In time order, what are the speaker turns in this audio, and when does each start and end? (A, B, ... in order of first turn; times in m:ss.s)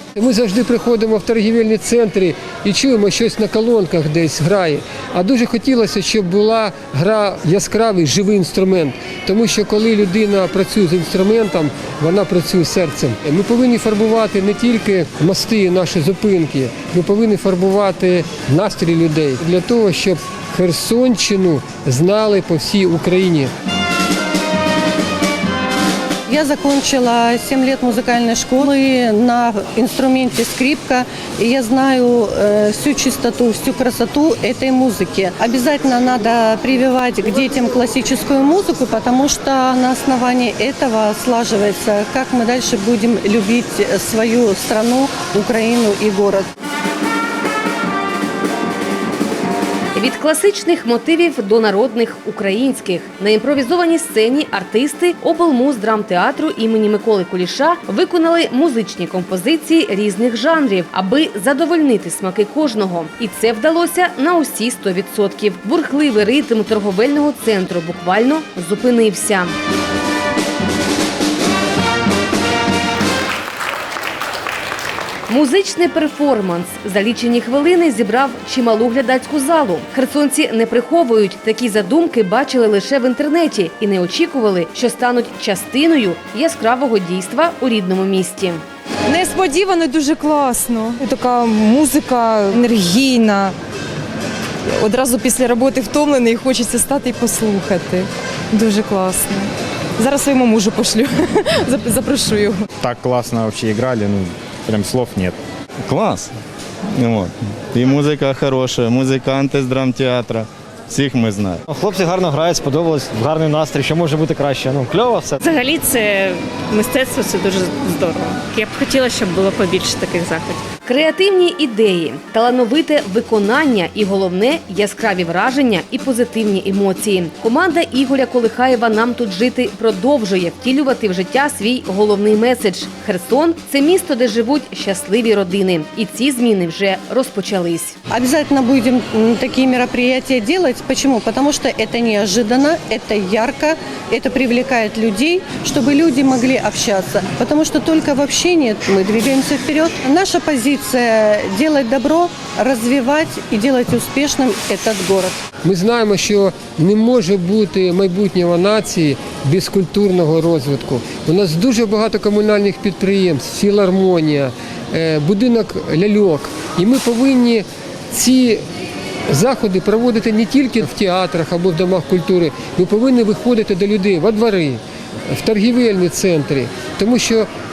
0:00.2-0:23.5 A
0:26.3-0:46.5 B
0:50.0-1:09.5 C
1:15.3-1:28.6 C
1:29.1-1:33.6 D
1:34.8-1:42.7 D
1:42.8-1:45.4 E
1:45.9-1:46.3 F
1:47.0-1:51.6 F
1:51.7-1:55.4 G
1:55.4-2:00.6 H
2:00.8-2:18.0 C
2:18.1-2:35.4 B
2:35.6-2:48.6 A
2:49.3-2:57.5 A